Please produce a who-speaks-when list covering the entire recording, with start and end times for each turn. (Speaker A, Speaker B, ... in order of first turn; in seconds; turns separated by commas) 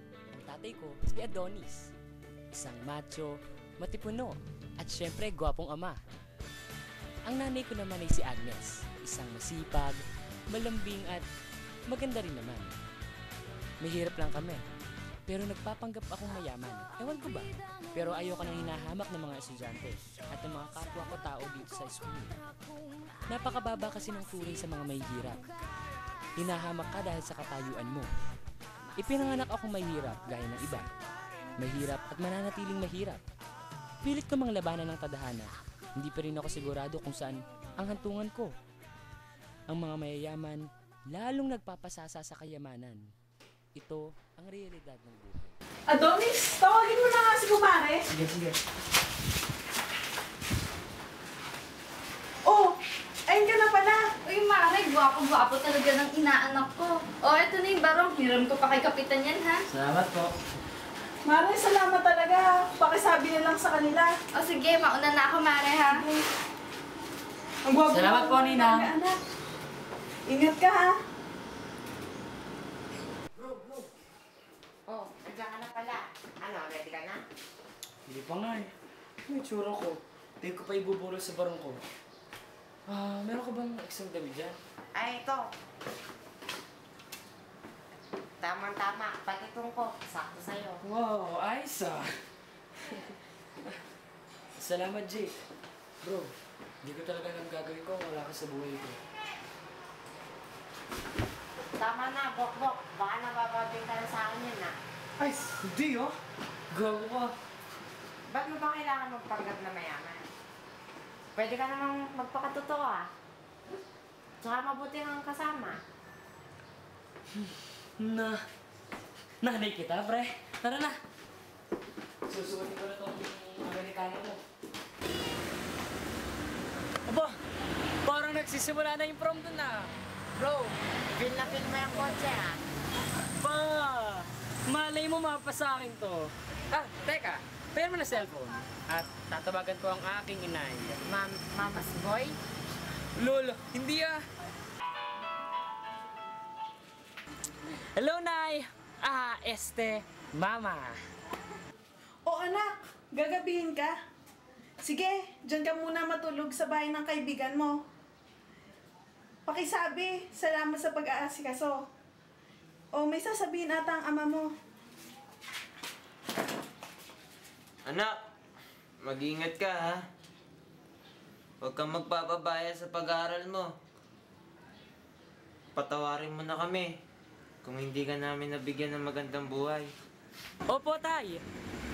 Speaker A: 0.3-1.9, Speaker A: 2.5-6.0, Speaker A: 7.2-11.3, Speaker A: 11.9-12.8, Speaker A: 13.8-14.6, Speaker A: 15.2-22.4, Speaker A: 23.3-25.5, Speaker A: 26.4-28.1, Speaker A: 28.9-30.9, Speaker A: 31.6-33.2, Speaker A: 34.0-38.5, Speaker A: 39.7-43.0, Speaker A: 43.7-45.6, Speaker B: 45.9-48.1, Speaker A: 48.1-48.5, Speaker B: 52.5-52.8, Speaker B: 53.3-54.0, Speaker C: 54.2-59.6, Speaker A: 59.7-60.3, Speaker B: 61.2-64.1, Speaker C: 64.3-66.0, Speaker B: 65.9-66.2, Speaker B: 67.6-69.2, Speaker A: 67.9-68.9, Speaker B: 70.3-71.0, Speaker A: 73.4-73.9, Speaker D: 74.9-77.2, Speaker A: 78.0-78.7, Speaker A: 79.3-81.8, Speaker A: 82.9-84.6, Speaker D: 84.9-85.4, Speaker D: 88.4-90.8, Speaker A: 90.8-92.1, Speaker A: 94.6-95.3, Speaker A: 96.0-99.0, Speaker D: 101.8-104.8, Speaker A: 105.2-106.2, Speaker A: 106.7-107.3, Speaker D: 108.3-110.2, Speaker D: 111.3-113.1, Speaker D: 114.4-115.8, Speaker A: 118.0-118.4, Speaker A: 119.4-121.0, Speaker A: 122.3-124.4, Speaker A: 127.1-127.4, Speaker A: 128.0-130.7, Speaker D: 131.2-132.6, Speaker A: 133.4-141.0, Speaker D: 141.0-142.4, Speaker A: 143.2-144.2, Speaker A: 147.9-151.0, Speaker B: 152.2-153.9, Speaker B: 154.8-157.8, Speaker B: 159.5-161.8, Speaker B: 162.9-164.5, Speaker E: 167.8-168.1, Speaker E: 169.0-170.0, Speaker E: 171.6-173.7, Speaker E: 175.8-176.9, Speaker E: 177.6-179.9, Speaker A: 180.7-181.4